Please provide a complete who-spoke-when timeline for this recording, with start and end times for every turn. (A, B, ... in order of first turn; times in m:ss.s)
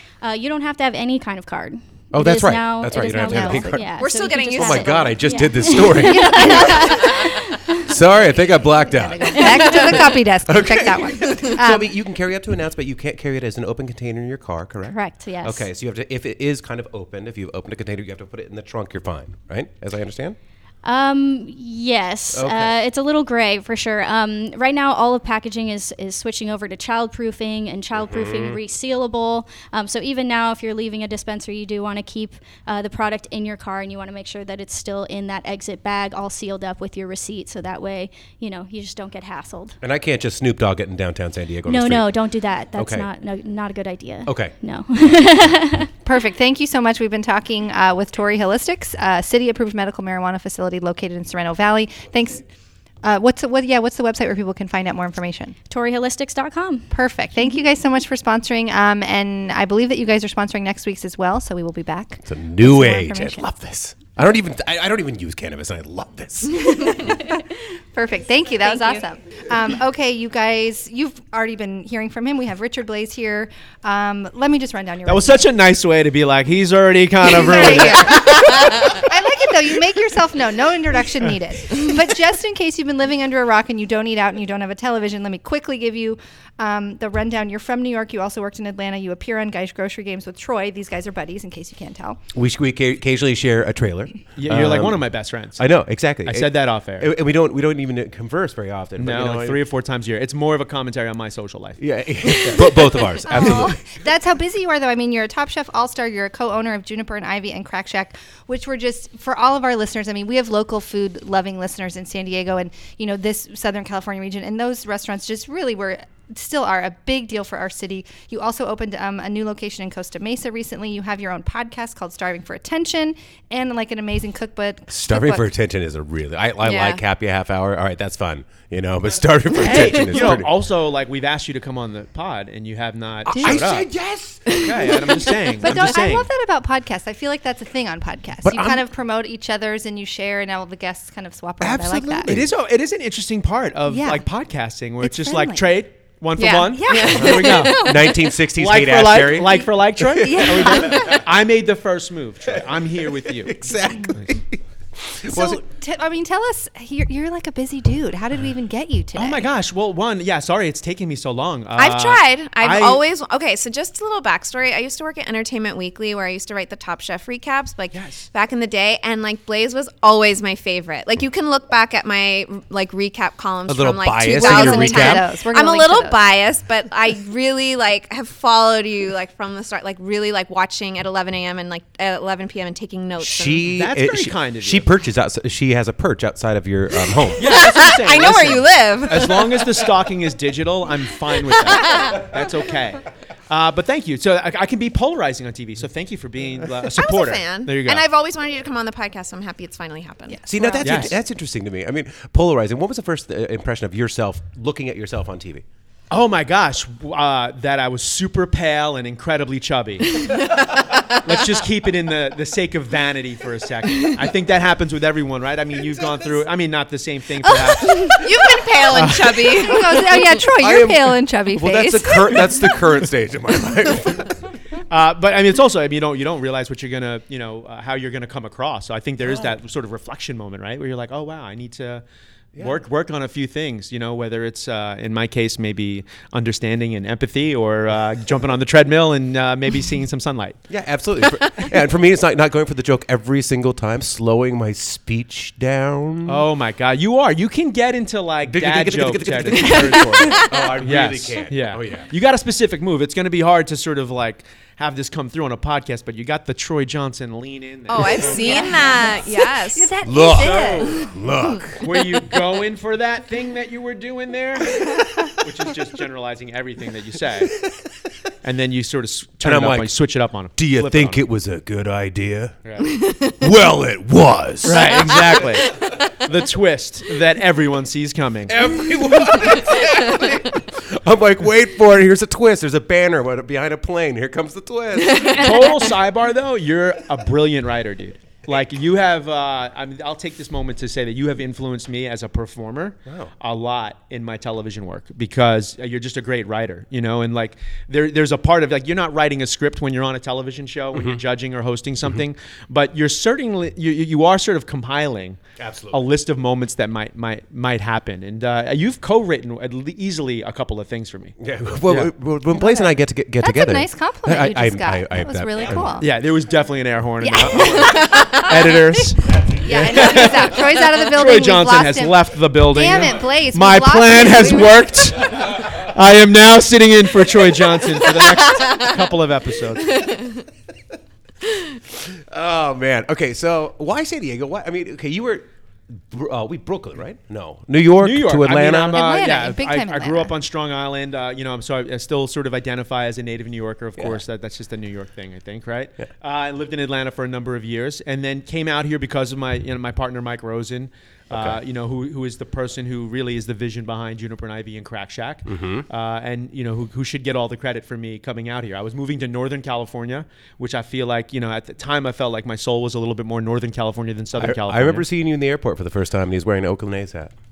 0:00.2-0:07.9 A
0:02.1-0:20.4 B
0:03.0-0:03.6 C
0:04.0-0:05.2 D
0:06.0-0:07.2 C
0:08.8-0:11.9 C
0:09.4-0:10.0 A
0:14.9-0:15.6 A
0:20.8-0:39.8 A
0:22.3-0:22.7 B
0:27.9-0:28.6 B
0:39.8-0:42.1 B
0:41.6-0:45.9 A
0:42.8-0:43.1 B
0:44.3-0:44.5 B
0:46.0-0:52.4 C
0:53.0-0:55.5 C
0:55.7-0:56.9 A
0:56.9-1:03.5 C
1:02.2-1:07.1 B
1:07.9-1:15.4 C
1:15.0-1:19.0 E
1:17.3-1:32.2 C
1:32.3-1:39.6 B
1:34.4-1:35.7 E
1:36.2-1:37.1 E
1:39.0-1:43.7 E
1:41.8-1:43.8 B
1:43.2-2:05.5 C
2:04.9-2:10.5 B
2:06.6-2:07.0 D
2:09.6-2:13.9 E
2:13.2-2:15.0 B
2:13.3-2:13.6 C
2:14.5-2:14.8 D
2:14.5-2:16.3 E
2:15.6-2:22.3 C
2:18.4-2:18.8 B
2:21.6-2:22.5 B
2:22.3-2:34.2 E
2:23.9-2:24.2 C
2:25.0-2:25.6 C
2:26.4-2:28.4 D
2:26.7-2:27.6 C
2:27.1-2:31.2 B
2:30.2-2:31.1 C
2:32.5-2:35.6 B
2:35.2-2:39.5 C
2:39.2-2:43.0 E
2:41.8-3:03.7 D
2:47.9-2:48.3 E
2:53.7-2:55.2 B
2:54.3-2:56.2 C
3:03.2-3:07.6 B
3:03.6-3:04.8 E
3:07.1-3:09.8 D
3:07.4-3:18.0 E
3:11.6-3:12.2 D
3:16.9-3:20.8 D
3:20.3-3:21.1 C
3:20.4-3:25.6 B
3:20.8-3:21.1 E
3:26.1-3:39.7 E
3:37.4-3:40.3 D
3:39.6-3:42.6 C
3:40.6-3:44.4 B
3:44.9-3:52.0 E
3:49.2-3:49.6 B
3:52.5-3:52.8 B
3:52.6-4:00.6 E
4:00.7-4:06.4 B
4:06.2-4:19.0 E
4:08.4-4:12.1 B
4:09.5-4:10.7 D
4:17.9-4:19.9 D
4:18.0-4:18.2 B
4:18.3-4:21.0 C
4:20.0-4:21.8 B
4:20.4-4:21.0 E
4:21.8-4:27.6 E
4:28.4-4:31.2 E
4:29.4-4:29.9 B
4:30.5-4:32.6 B
4:32.6-4:33.0 E
4:33.3-4:35.8 B
4:34.6-4:38.8 E
4:38.5-4:45.7 B
4:45.1-4:45.6 D
4:45.3-5:11.3 E
5:00.9-5:01.2 B
5:05.6-5:06.0 B
5:11.4-5:16.0 B
5:11.8-5:12.1 E
5:12.5-5:16.0 C
5:16.0-5:30.1 E
5:17.2-5:24.8 C
5:17.8-5:18.4 D
5:28.4-5:28.9 D
5:29.9-5:30.3 D
5:31.9-5:39.3 B
5:38.0-6:05.0 E
5:38.9-5:40.3 C
5:51.3-5:51.6 B
5:55.5-5:55.9 B
6:04.4-6:07.3 B